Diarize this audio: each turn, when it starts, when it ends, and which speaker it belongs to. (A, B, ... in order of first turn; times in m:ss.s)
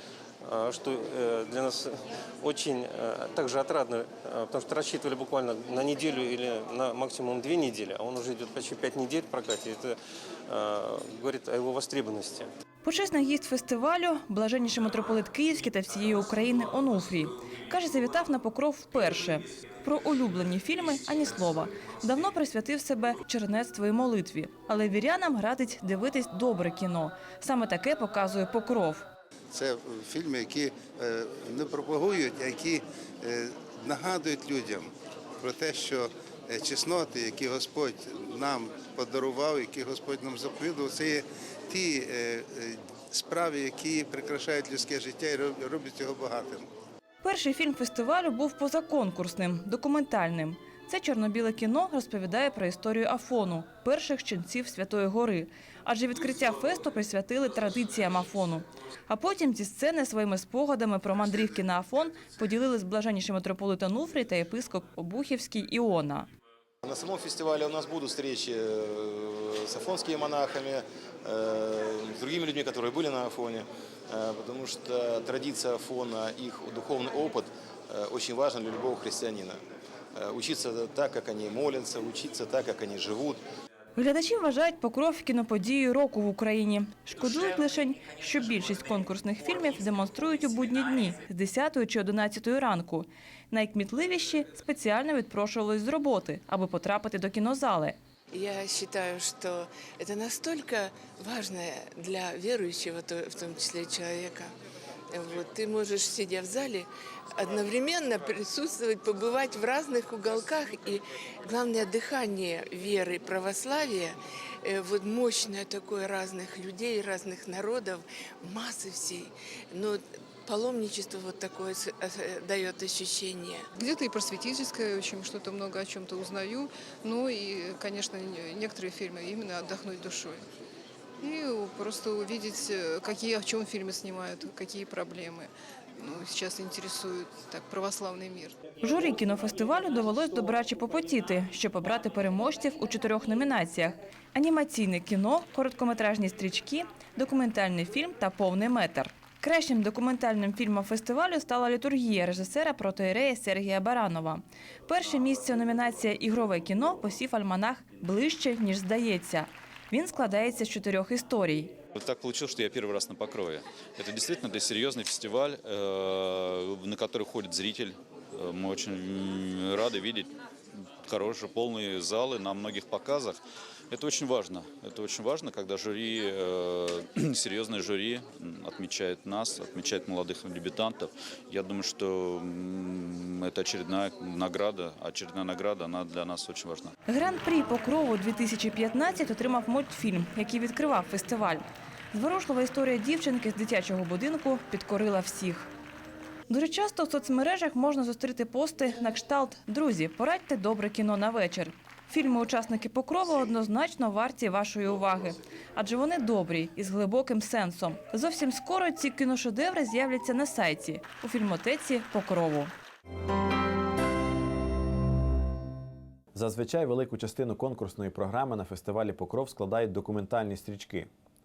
0:00.4-0:10.0 A
0:10.5-0:12.5 A
0:12.8-0:29.1 B
0:29.5-0:46.7 C
0:47.2-1:06.3 B
1:06.8-1:19.6 D
1:20.1-1:23.4 D
1:24.0-1:38.0 B
1:38.3-1:44.5 E
1:45.1-2:03.7 E
2:03.8-2:10.4 F
2:11.2-2:18.6 F
2:18.8-2:41.8 B
2:41.9-2:50.3 G
2:51.0-3:06.9 G
3:07.1-3:15.7 B
3:16.5-3:32.7 B
3:36.3-3:41.1 H